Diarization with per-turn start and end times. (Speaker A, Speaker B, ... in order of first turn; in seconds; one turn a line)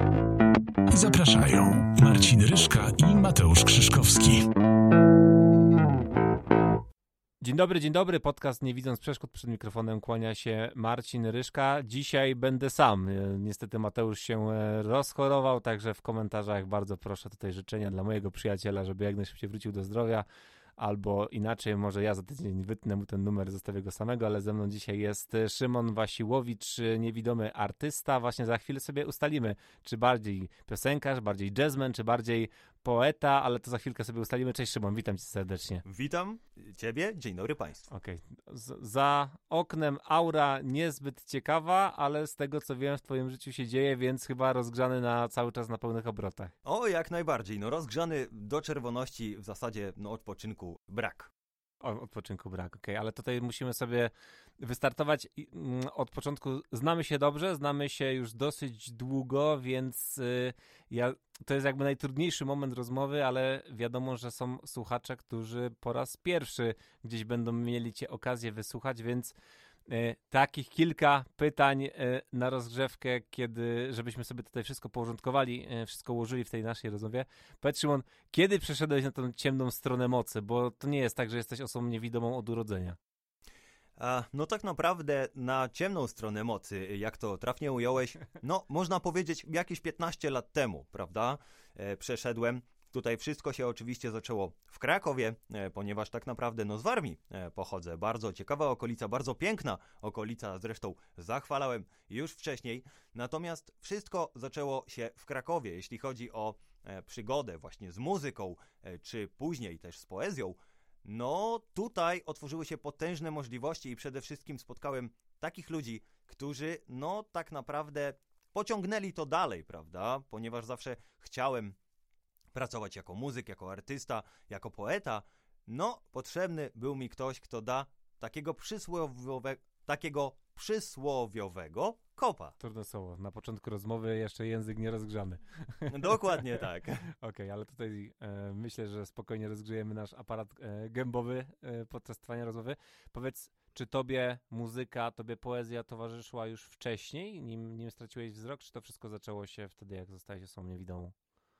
Speaker A: 0.9-4.5
Speaker B: 7.4-20.2
Speaker B: 20.8-35.8
Speaker C: 35.8-37.9
Speaker B: 37.9-46.5
Speaker C: 46.6-51.3
Speaker B: 51.8-69.3
Speaker B: 69.9-83.0
Speaker C: 84.0-121.8
Speaker C: 122.5-132.5
Speaker B: 132.6-136.4
Speaker C: 135.9-137.0
Speaker B: 137.1-151.1